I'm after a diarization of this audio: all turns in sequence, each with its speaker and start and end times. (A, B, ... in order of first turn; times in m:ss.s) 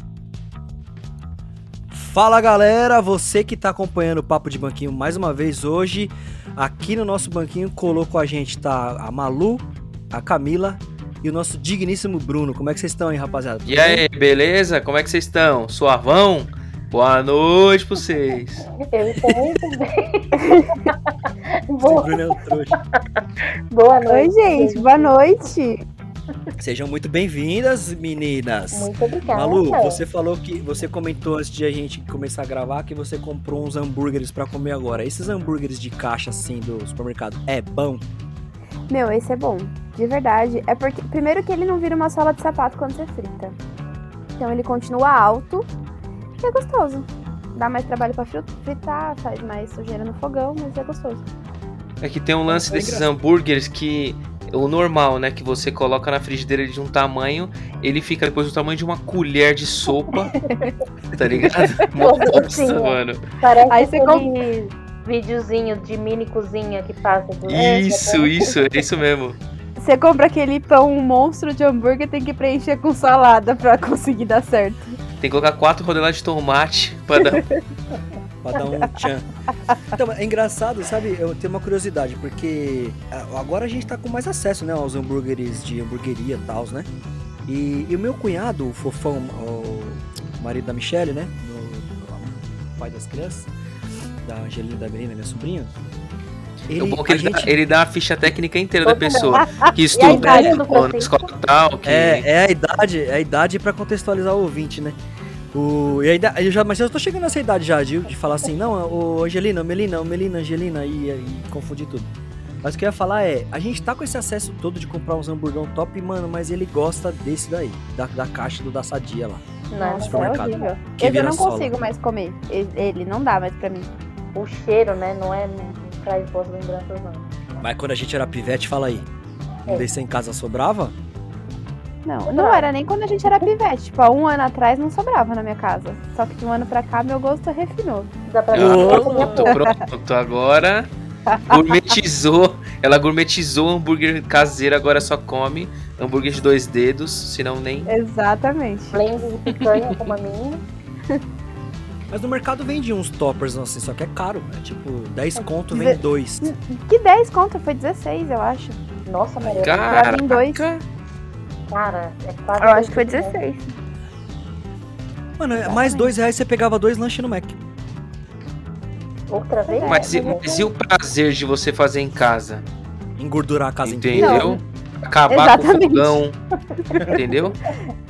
0:01.9-0:14.0 A
0:13.6-0:18.7 B
0:18.9-0:21.1 C
0:20.4-0:20.9 D
0:21.7-0:22.7 C
0:21.8-0:22.8 A
0:23.7-0:25.1 C
0:24.0-0:25.8 D
0:26.6-0:38.0 A
0:28.7-0:30.0 C
0:38.9-0:43.6 D
0:44.4-0:45.7 D
0:46.4-0:51.2 D
0:52.0-1:00.4 B
0:52.5-0:53.1 A
1:01.2-1:03.2 B
1:01.2-1:01.7 A
1:02.0-1:08.5 C
1:03.7-1:04.4 D
1:07.5-1:09.4 B
1:09.8-1:14.9 D
1:15.2-1:17.4 B
1:17.1-1:17.6 D
1:18.4-1:19.2 A
1:19.9-1:26.9 A
1:27.5-1:33.5 A
1:34.2-1:35.7 A
1:36.7-1:37.5 A
1:36.7-1:42.2 B
1:38.8-1:41.3 C
1:39.4-1:40.6 D
1:40.0-1:40.6 A
1:41.8-1:45.0 A
1:45.5-1:52.1 A
1:52.6-1:59.4 A
1:59.7-2:00.7 C
1:59.7-2:03.9 D
2:00.0-2:01.7 A
2:04.3-2:07.3 C
2:07.6-2:09.1 A
2:09.7-2:10.9 A
2:12.0-2:18.1 D
2:12.3-2:12.6 C
2:18.3-2:19.6 C
2:18.5-2:19.4 A
2:18.5-2:20.9 B
2:19.2-2:19.8 D
2:21.3-2:21.6 D
2:21.5-2:27.9 B
2:27.9-2:29.0 D
2:28.9-2:30.6 C
2:29.5-2:30.0 B
2:32.1-2:36.5 A
2:35.7-2:38.8 D
2:39.0-2:40.0 C
2:39.4-2:40.8 B
2:39.8-2:40.7 D
2:41.7-2:43.3 C
2:42.6-2:43.7 D
2:45.4-2:47.6 A
2:45.6-2:46.1 D
2:49.3-2:50.7 C
2:49.6-2:50.4 D
2:49.8-2:52.6 B
2:53.2-2:54.6 A
2:53.8-2:56.4 B
2:54.2-2:54.6 D
2:55.3-2:56.2 D
2:57.0-2:57.6 B